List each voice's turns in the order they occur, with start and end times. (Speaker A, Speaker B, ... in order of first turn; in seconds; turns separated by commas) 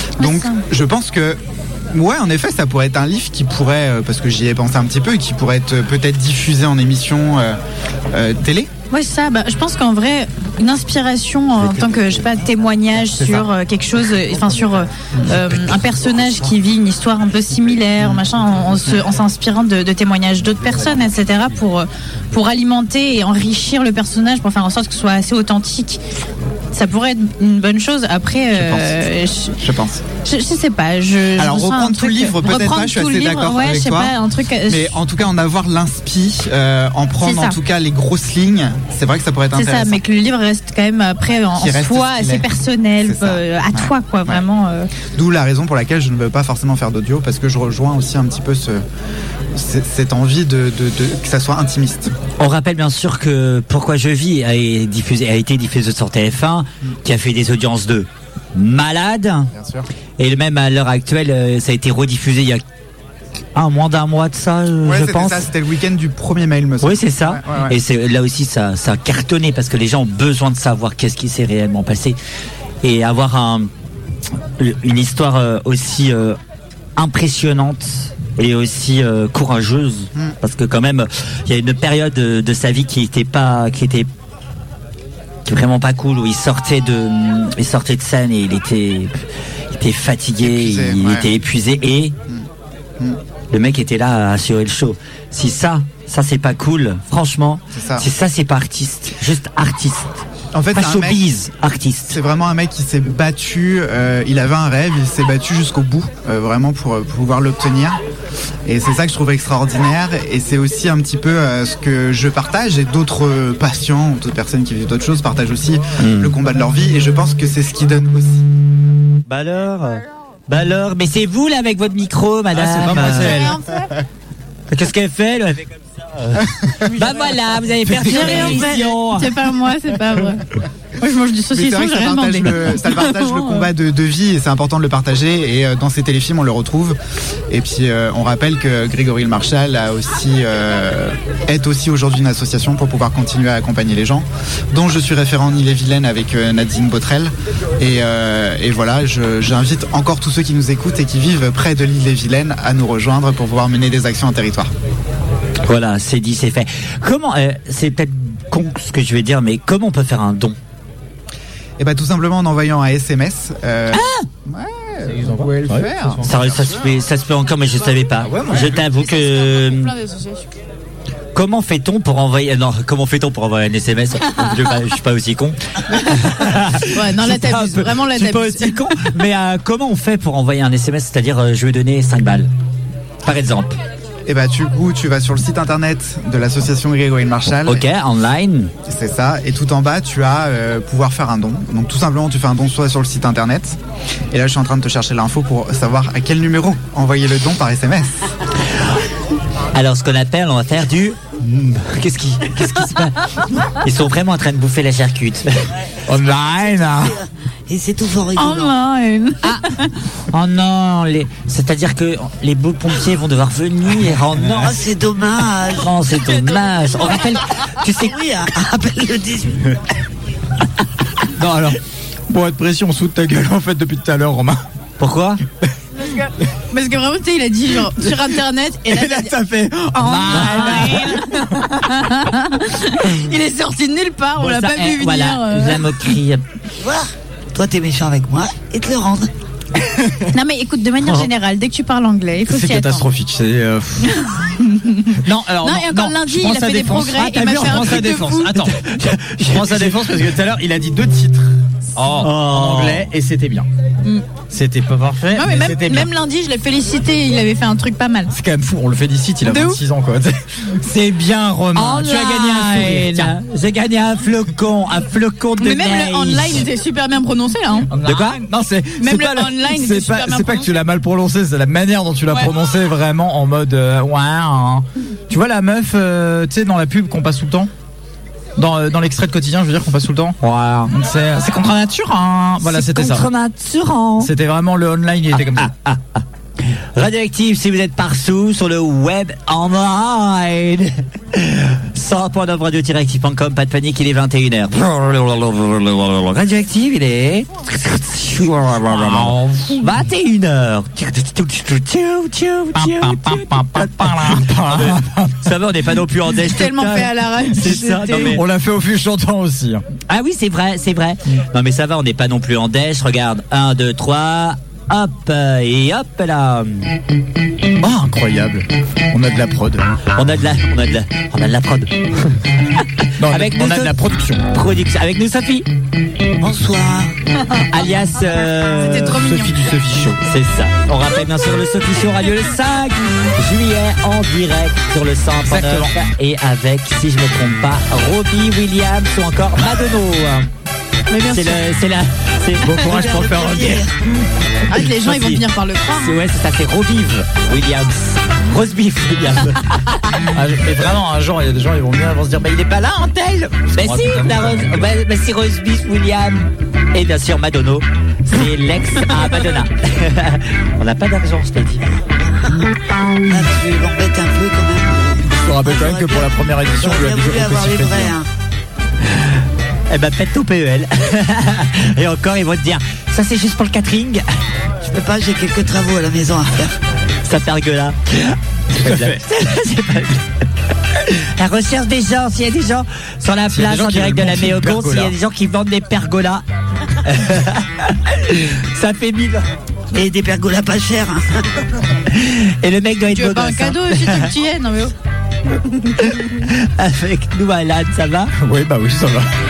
Speaker A: 0.2-7.6, Speaker B: 0.2-0.6, Speaker A: 8.1-8.7, Speaker B: 8.9-26.0, Speaker B: 26.7-29.6, Speaker A: 28.5-29.1, Speaker A: 29.6-30.1, Speaker B: 30.1-34.9, Speaker A: 31.4-34.2, Speaker A: 34.7-40.0, Speaker B: 37.2-37.6, Speaker B: 39.5-44.9, Speaker A: 41.5-42.5, Speaker A: 43.0-44.4, Speaker A: 45.0-48.8, Speaker A: 49.5-52.1, Speaker C: 52.4-59.5, Speaker A: 59.5-59.9, Speaker C: 60.2-62.6, Speaker C: 63.5-65.5, Speaker A: 64.8-67.8, Speaker C: 66.8-72.2, Speaker C: 72.8-73.7, Speaker C: 74.6-76.4, Speaker C: 77.0-84.1, Speaker C: 85.5-92.2, Speaker A: 90.4-91.3, Speaker C: 93.5-102.2, Speaker A: 97.7-98.1, Speaker A: 100.5-101.2, Speaker A: 102.1-108.0, Speaker A: 108.7-118.5, Speaker C: 116.0-116.3, Speaker C: 119.3-123.5, Speaker D: 122.5-123.5, Speaker B: 123.1-124.0, Speaker C: 124.7-129.3, Speaker B: 126.9-127.4, Speaker D: 128.0-128.6, Speaker B: 128.0-130.4, Speaker E: 128.0-128.8, Speaker B: 131.0-133.7, Speaker A: 131.5-137.0, Speaker A: 137.5-154.7, Speaker C: 155.7-160.6, Speaker A: 161.8-166.2, Speaker C: 163.9-164.3, Speaker D: 165.1-166.7, Speaker C: 166.2-169.9, Speaker D: 168.2-168.9, Speaker B: 168.9-170.4, Speaker C: 171.3-182.5, Speaker B: 176.8-179.1, Speaker C: 183.2-183.8, Speaker A: 184.3-187.9, Speaker C: 187.7-188.7, Speaker A: 188.9-193.8, Speaker A: 194.3-198.3, Speaker C: 199.7-205.7, Speaker D: 206.1-207.2, Speaker E: 206.2-208.8, Speaker B: 208.4-209.9, Speaker C: 210.3-214.8, Speaker E: 214.5-215.9, Speaker C: 215.8-218.2, Speaker E: 218.0-219.8, Speaker D: 221.3-224.6, Speaker C: 225.0-225.4, Speaker B: 226.0-229.3, Speaker D: 228.9-231.4, Speaker B: 229.9-236.0, Speaker C: 230.1-231.2, Speaker C: 234.4-236.4, Speaker E: 236.8-239.3, Speaker B: 240.3-243.1, Speaker D: 242.5-244.2, Speaker B: 244.0-248.6, Speaker D: 245.1-253.7, Speaker C: 248.7-250.2, Speaker C: 252.1-253.1, Speaker D: 254.5-256.1, Speaker B: 255.4-258.3, Speaker D: 258.3-263.4, Speaker B: 259.5-259.8, Speaker C: 261.8-266.6, Speaker B: 265.6-267.9, Speaker D: 267.9-277.7, Speaker C: 268.0-268.4, Speaker B: 269.0-270.8, Speaker D: 278.6-283.3, Speaker C: 280.4-280.9, Speaker C: 282.6-284.3, Speaker D: 284.2-285.7, Speaker C: 285.3-308.4, Speaker D: 298.9-299.8, Speaker D: 302.8-305.5, Speaker B: 306.4-308.4, Speaker D: 307.7-309.8, Speaker C: 310.1-316.9, Speaker D: 317.8-319.9, Speaker C: 320.2-324.0, Speaker D: 323.2-324.4, Speaker C: 324.5-325.7, Speaker E: 326.4-327.2, Speaker C: 327.7-329.2, Speaker B: 328.6-329.9, Speaker D: 329.0-330.2, Speaker C: 330.2-340.5, Speaker D: 335.5-335.9, Speaker B: 341.1-341.6, Speaker C: 341.3-342.9, Speaker D: 342.6-343.9, Speaker E: 342.7-343.9, Speaker B: 344.7-346.2, Speaker C: 345.0-345.4, Speaker C: 345.9-350.0, Speaker D: 350.2-354.9, Speaker C: 353.7-361.8, Speaker E: 363.2-368.3, Speaker D: 365.2-368.1, Speaker C: 369.1-374.3, Speaker E: 374.8-376.8, Speaker C: 377.2-380.3, Speaker D: 378.7-379.2, Speaker C: 380.9-386.4, Speaker D: 383.5-385.1, Speaker C: 387.0-389.5, Speaker E: 389.9-391.6, Speaker C: 392.1-394.3, Speaker B: 393.1-394.9, Speaker B: 395.6-396.4, Speaker C: 396.0-398.4, Speaker D: 398.4-399.3